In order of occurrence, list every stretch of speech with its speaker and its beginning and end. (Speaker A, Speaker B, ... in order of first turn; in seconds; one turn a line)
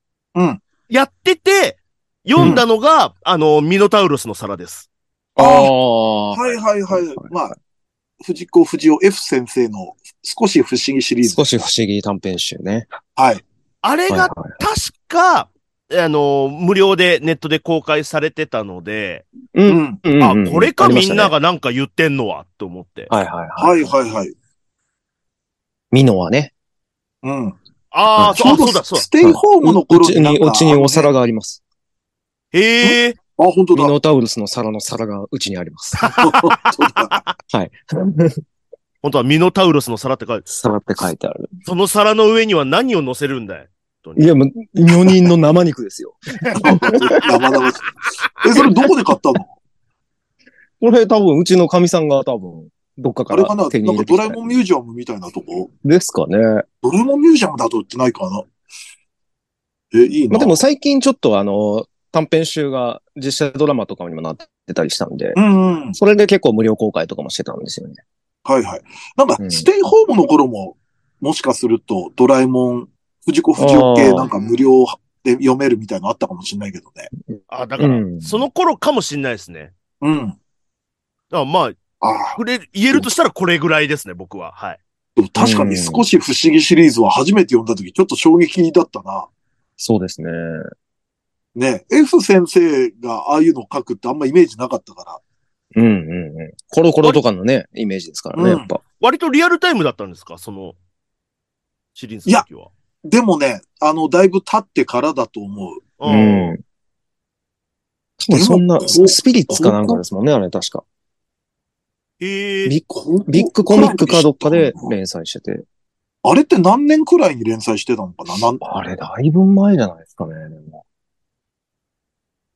Speaker A: 0.3-0.6
Speaker B: 0.9-4.9
Speaker C: 2.4-2.6
Speaker C: 5.3-7.3
Speaker A: 5.4-5.7
Speaker A: 6.3-7.5
Speaker A: 8.2-11.4
Speaker C: 11.2-12.9
Speaker A: 13.2-13.4
Speaker B: 13.8-19.3
Speaker C: 14.1-14.6
Speaker C: 19.5-21.3
Speaker A: 19.7-20.0
Speaker B: 20.2-23.1
Speaker C: 23.1-23.9
Speaker A: 23.6-24.3
Speaker C: 25.9-26.5
Speaker A: 27.2-27.6
Speaker B: 27.9-29.1
Speaker C: 28.1-28.5
Speaker A: 28.3-31.1
Speaker C: 29.2-31.6
Speaker B: 32.5-33.2
Speaker A: 32.8-33.9
Speaker C: 33.7-36.1
Speaker B: 36.0-37.3
Speaker A: 36.2-37.2
Speaker C: 37.5-38.4
Speaker B: 39.0-40.5
Speaker C: 40.5-41.5
Speaker B: 41.6-44.3
Speaker C: 44.2-47.0
Speaker A: 46.5-47.9
Speaker A: 48.4-49.5
Speaker C: 50.8-54.4
Speaker A: 53.3-55.7
Speaker C: 55.8-56.6
Speaker A: 56.8-58.5
Speaker A: 59.9-60.6
Speaker C: 60.3-65.4
Speaker A: 65.3-66.0
Speaker C: 65.9-68.0
Speaker A: 68.4-77.1
Speaker C: 69.4-69.7
Speaker C: 73.6-74.3
Speaker C: 77.3-78.4
Speaker B: 77.5-79.7
Speaker A: 80.0-80.4
Speaker B: 81.3-81.8
Speaker A: 82.0-82.4
Speaker B: 82.4-84.8
Speaker A: 85.2-89.3
Speaker C: 85.4-86.0
Speaker C: 89.8-90.6
Speaker A: 91.5-95.2
Speaker C: 95.7-98.8
Speaker A: 98.3-98.7
Speaker B: 99.0-100.8
Speaker B: 102.0-102.7
Speaker A: 103.0-105.8
Speaker B: 106.0-106.5
Speaker C: 106.0-106.6
Speaker C: 108.2-110.8
Speaker A: 108.3-110.0
Speaker B: 112.2-112.7
Speaker C: 112.7-115.6
Speaker A: 112.9-114.9
Speaker A: 116.2-118.6
Speaker C: 118.6-120.8